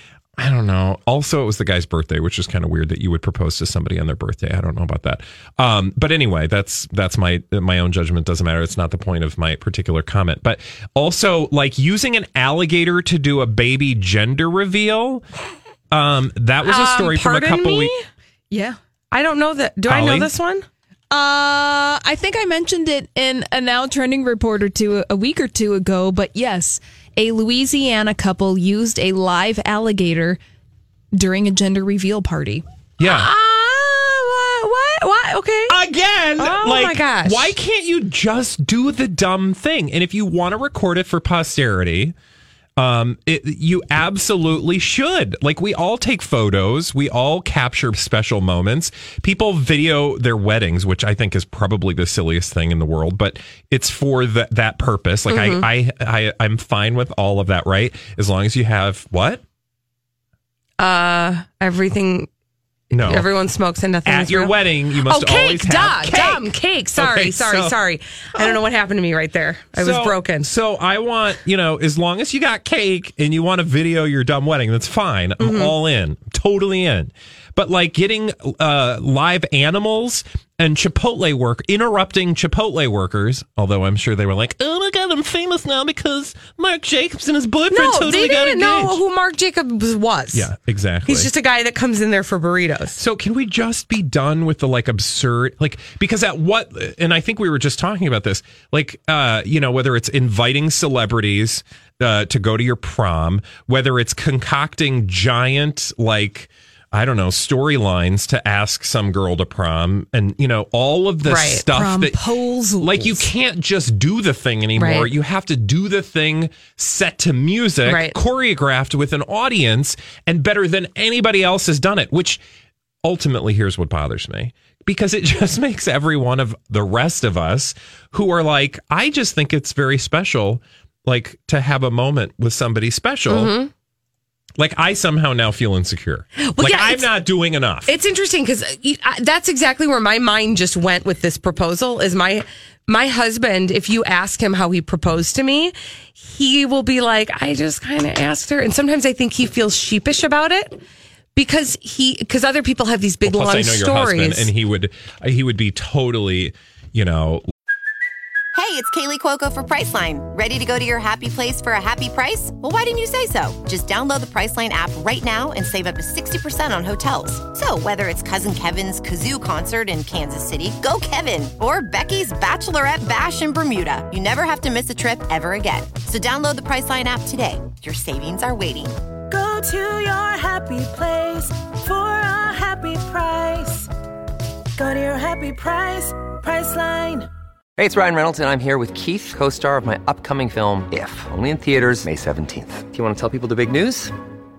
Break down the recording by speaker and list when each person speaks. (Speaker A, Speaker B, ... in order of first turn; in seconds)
Speaker A: 0.4-15.2, 15.9-17.9, 19.9-20.3, 33.0-33.3, 35.7-42.1, 42.8-59.4, 62.9-63.3, 64.0-67.7, 69.8-89.0, 90.3-91.3, 93.0-112.2, 112.8-122.4, 123.0-133.5, 134.6-137.9, 153.2-157.4
Speaker B: 16.6-18.0, 19.1-20.6, 33.0-35.7, 36.4-37.5, 55.3-55.7, 60.8-62.3, 62.9-64.5, 65.0-70.5, 75.4-75.7, 87.7-90.5, 91.1-93.0, 111.2-111.6, 114.8-115.1, 117.8-118.2, 133.3-133.7, 136.4-137.1, 137.9-150.8, 151.3-154.5
Speaker C: 18.5-18.8, 21.1-30.4, 31.1-32.6, 111.7-113.2
Speaker D: 158.5-179.0
Speaker E: 179.3-183.9, 184.8-187.3
Speaker F: 187.8-194.1